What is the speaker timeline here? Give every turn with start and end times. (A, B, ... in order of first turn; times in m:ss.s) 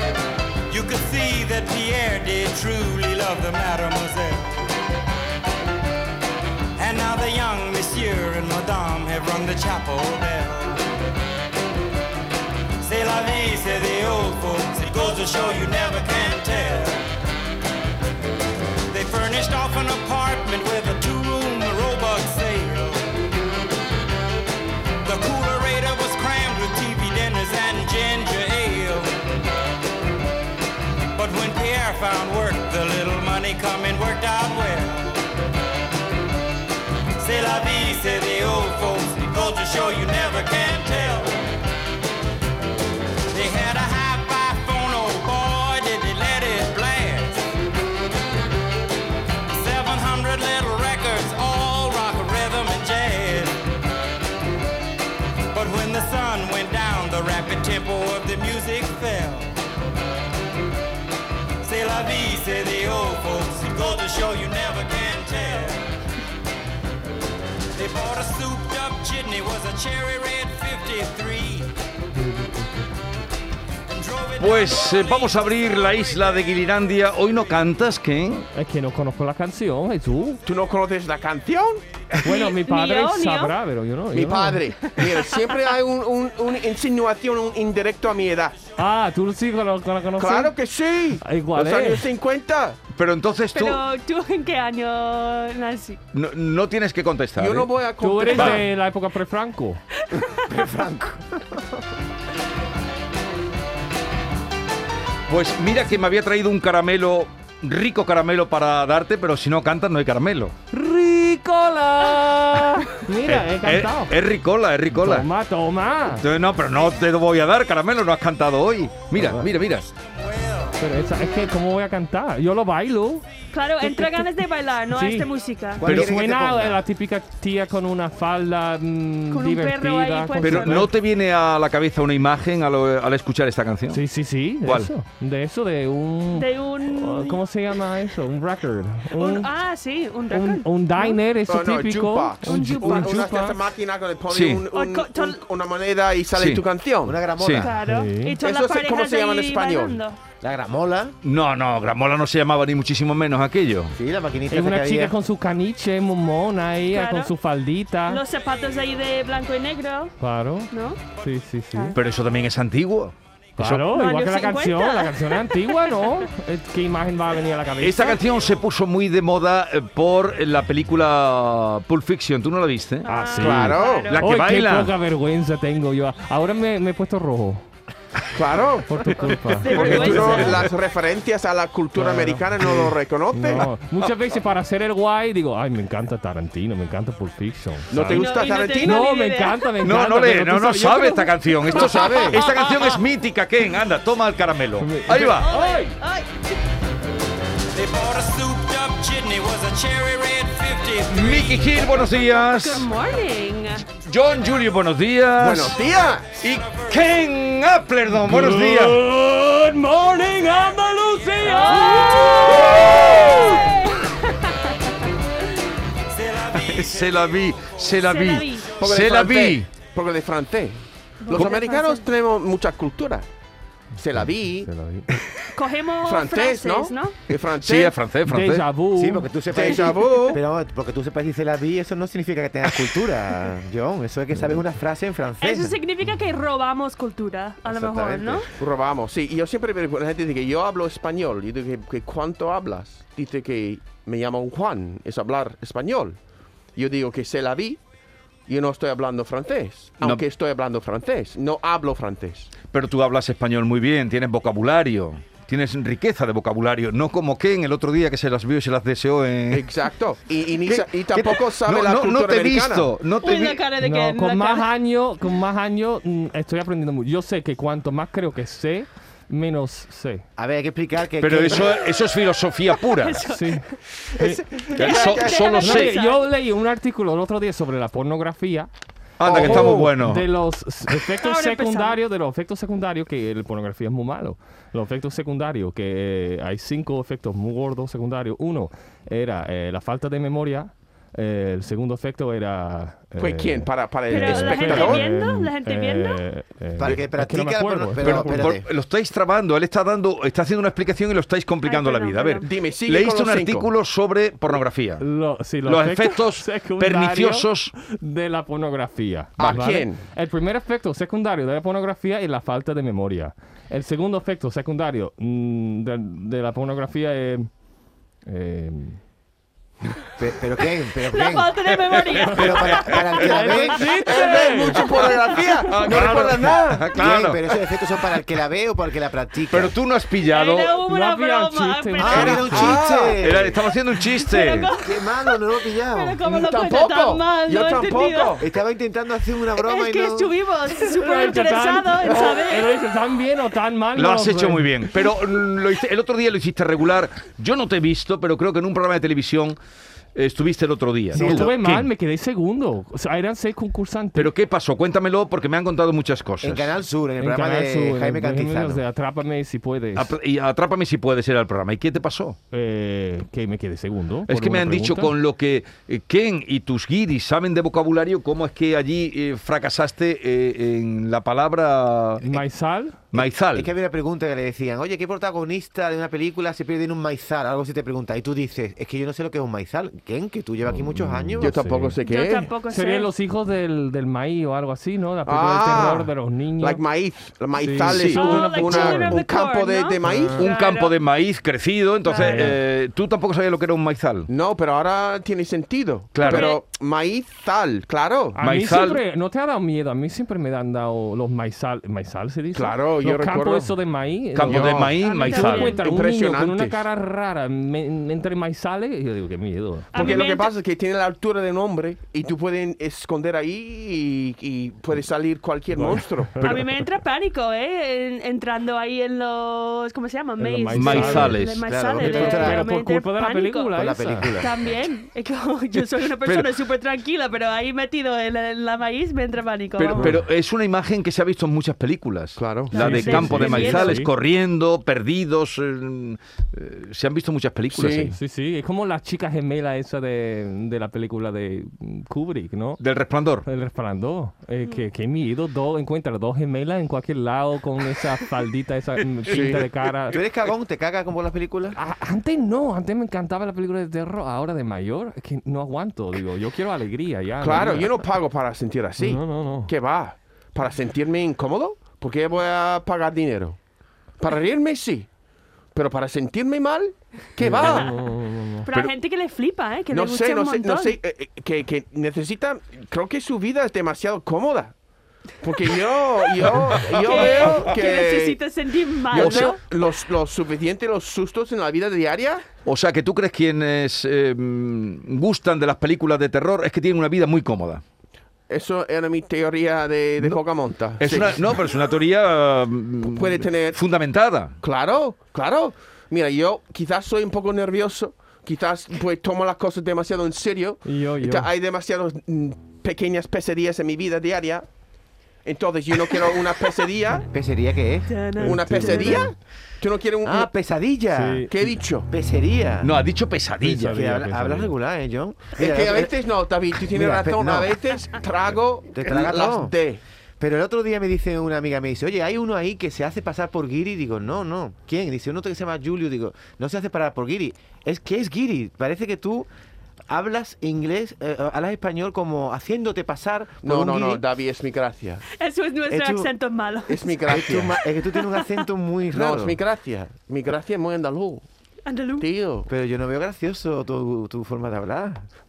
0:00.7-0:04.7 A
0:06.8-0:10.8 A
0:12.8-0:17.0 A
0:18.9-0:23.1 A
0:25.0-0:29.1 A
0:31.2-0:35.2 A
0:37.2-0:41.4 A
0:43.3-0:47.5 A
0:49.5-0:53.6 A
0:55.5-0:59.5 A
1:01.6-1:05.8 A
1:07.8-1:11.7 A
1:12.1-1:12.9 B
1:13.9-1:16.4 A
1:14.4-1:18.5 C
1:18.5-1:20.4 B
1:20.4-1:21.8 D
1:22.2-1:24.7 B
1:22.2-1:23.6 E
1:24.1-1:28.6 D
1:25.0-1:25.5 E
1:28.8-1:30.6 B
1:30.2-1:32.8 D
1:31.2-1:32.1 B
1:32.9-1:33.8 C
1:33.5-1:36.0 E
1:36.1-1:37.7 C
1:37.4-1:38.6 D
1:38.0-1:39.8 B
1:38.3-1:38.6 C
1:40.1-1:40.4 E
1:40.5-1:41.6 F
1:45.3-1:50.6 C
1:50.7-1:54.2 B
1:52.0-1:55.3 C
1:54.9-1:56.2 B
1:56.2-1:59.9 C
1:59.1-1:59.5 B
2:00.0-2:00.8 A
2:00.8-2:03.2 B
2:03.5-2:05.8 E
2:03.8-2:04.3 B
2:04.9-2:05.3 B
2:05.8-2:06.8 F
2:05.8-2:10.9 B
2:05.8-2:06.1 C
2:09.3-2:10.9 E
2:10.4-2:14.0 C
2:13.9-2:19.5 B
2:14.6-2:14.9 C
2:16.3-2:17.4 E
2:19.2-2:21.2 E
2:20.3-2:23.6 B
2:21.5-2:27.3 D
2:22.4-2:23.3 E
2:24.3-2:24.6 C
2:24.7-2:25.4 E
2:26.3-2:26.6 C
2:27.0-2:27.7 F
2:27.4-2:27.7 C
2:27.5-2:30.2 E
2:27.8-2:28.4 B
2:28.4-2:30.0 D
2:30.4-2:31.2 F
2:31.2-2:34.0 C
2:33.9-2:35.2 F
2:34.5-2:38.2 B
2:36.9-2:37.3 E
2:38.1-2:40.2 E
2:40.2-2:42.0 B
2:40.7-2:41.0 E
2:41.9-2:43.9 C
2:43.6-2:48.2 B
2:43.9-2:46.3 E
2:47.8-2:53.1 C
2:53.0-2:54.2 E
2:53.1-2:57.7 B
2:53.4-2:54.2 D
2:53.6-2:55.0 C
2:58.3-3:03.7 D
2:58.8-3:00.7 B
2:59.6-3:00.7 E
3:00.1-3:00.4 C
3:02.0-3:12.1 B
3:07.9-3:09.0 D
3:08.1-3:09.7 E
3:09.8-3:15.5 C
3:11.7-3:13.0 E
3:11.8-3:12.4 F
3:14.8-3:16.0 B
3:15.1-3:16.5 E
3:17.7-3:22.5 A
3:21.1-3:22.9 C
3:22.4-3:23.8 E
3:24.0-3:25.8 C
3:24.3-3:24.6 A
3:25.4-3:26.4 D
3:26.4-3:29.0 C
3:26.4-3:28.0 A
3:28.1-3:33.8 B
3:30.0-3:33.9 A
3:31.4-3:34.6 E
3:32.8-3:33.6 C
3:36.1-3:38.0 A
3:36.5-3:39.7 C
3:38.0-3:38.8 E
3:38.8-3:43.3 D
3:41.2-3:42.1 E
3:44.0-3:44.7 D
3:44.2-3:45.2 B
3:45.5-3:47.2 E
3:46.0-3:48.0 D
3:47.5-3:48.7 C
3:48.2-3:49.3 B
3:49.0-3:55.8 F
3:49.5-3:50.4 D
3:55.4-3:58.5 E
3:57.7-3:58.5 F
3:58.6-4:06.2 D
4:06.8-4:07.8 D
4:08.5-4:12.5 D
4:12.7-4:19.7 C
4:19.5-4:23.0 D
4:20.7-4:23.6 C
4:23.2-4:24.7 E
4:23.8-4:30.2 B
4:30.4-4:31.8 F
4:31.2-4:33.3 C
4:32.9-4:33.8 E
4:33.3-4:33.6 B
4:34.0-4:35.5 D
4:34.8-4:36.0 C
4:34.8-4:36.3 E
4:35.6-4:38.7 B
4:39.2-4:40.3 C
4:39.2-4:39.8 D
4:39.3-4:58.5 B
4:41.2-4:42.0 E
4:53.2-4:55.0 D
4:54.1-4:56.2 E
4:56.8-4:58.7 F
4:58.0-5:05.0 C
5:01.6-5:02.5 E
5:02.4-5:03.7 D
5:05.0-5:17.5 B
5:05.7-5:07.7 C
5:09.4-5:10.0 D
5:18.3-5:19.0 B
5:20.2-5:24.0 F
5:21.1-5:23.0 E
5:22.6-5:23.1 C
5:23.2-5:24.8 B
5:24.0-5:27.1 D
5:25.5-5:27.4 C
5:27.0-5:29.7 F
5:29.5-5:30.8 C
5:30.3-5:32.6 E
5:30.9-5:32.7 B
5:32.0-5:33.6 F
5:32.1-5:34.7 C
5:32.5-5:33.2 D
5:34.1-5:38.4 E
5:34.8-5:36.2 F
5:36.2-5:38.4 D
5:38.4-5:40.3 F
5:39.6-5:42.8 E
5:40.8-5:44.8 B
5:44.0-5:49.6 C
5:50.2-5:51.9 C
5:51.1-5:51.5 F
5:51.2-5:54.3 B
5:54.2-5:56.7 C
5:56.4-5:58.8 F
5:57.2-6:00.1 B
6:00.0-6:02.4 C
6:02.5-6:05.2 B
6:04.3-6:12.4 C
6:12.2-6:13.0 B
6:13.1-6:13.7 C
6:13.1-6:21.6 F
6:20.7-6:22.0 B
6:21.4-6:22.5 D
6:22.0-6:23.1 E
6:22.7-6:26.8 B
6:25.3-6:30.5 D
6:27.6-6:29.2 B
6:27.9-6:31.0 E
6:30.0-6:30.4 B
6:30.4-6:34.3 C
6:32.0-6:32.5 E
6:32.1-6:32.6 B
6:34.3-6:38.4 D
6:36.1-6:36.5 C
6:36.2-6:36.6 E
6:38.4-6:50.2 B
6:38.4-6:39.0 C
6:42.5-6:43.8 D
6:44.4-6:45.8 C
6:44.5-6:45.0 D
6:45.0-6:46.0 E
6:45.8-6:46.8 D
6:49.9-6:50.5 E
6:49.9-6:56.5 D
6:55.7-6:56.6 B
6:56.4-7:03.8 E
7:00.4-7:01.4 B
7:00.7-7:01.7 C
7:01.6-7:02.7 F
7:02.0-7:04.3 B
7:03.8-7:04.7 F
7:04.4-7:10.1 E
7:06.2-7:06.5 C
7:09.8-7:18.2 C
7:12.4-7:12.8 D
7:12.7-7:14.0 E
7:12.8-7:14.1 B
7:17.7-7:18.1 D
7:18.1-7:22.8 B
7:22.8-7:23.4 C
7:23.4-7:30.2 B
7:29.3-7:29.7 D
7:30.1-7:31.8 F
7:31.8-7:37.9 B
7:37.4-7:43.6 D
7:39.0-7:39.7 B
7:44.2-7:45.1 D
7:45.8-7:47.9 D
7:47.4-7:48.7 B
7:47.6-7:47.9 E
7:48.7-7:51.0 E
7:49.9-7:54.8 D
7:55.4-7:58.4 D
7:56.9-7:59.6 E
7:59.1-8:02.4 D
8:02.7-8:07.8 C
8:08.5-8:11.5 D
8:11.0-8:14.6 C
8:13.1-8:13.8 D
8:14.6-8:24.7 D
8:20.8-8:21.5 B
8:25.4-8:27.3 D
8:27.2-8:28.2 F
8:28.1-8:29.3 E
8:28.4-8:29.2 B
8:28.4-8:30.5 D
8:30.2-8:31.5 F
8:31.1-8:31.5 B
8:31.5-8:32.1 D
8:32.1-8:33.0 F
8:32.8-8:34.0 C
8:33.6-8:34.7 B
8:33.9-8:36.2 F
8:35.6-8:40.0 D
8:36.7-8:37.7 F
8:38.9-8:39.7 F
8:40.4-8:49.5 F
8:50.1-8:54.2 F
8:53.6-8:55.2 D
8:55.4-8:57.2 E
8:55.9-8:56.3 F
8:56.9-8:57.8 D
8:57.3-8:59.6 F
8:58.1-8:58.6 E
8:59.1-9:01.5 D
9:01.9-9:02.3 E
9:02.2-9:02.7 D
9:02.7-9:05.3 F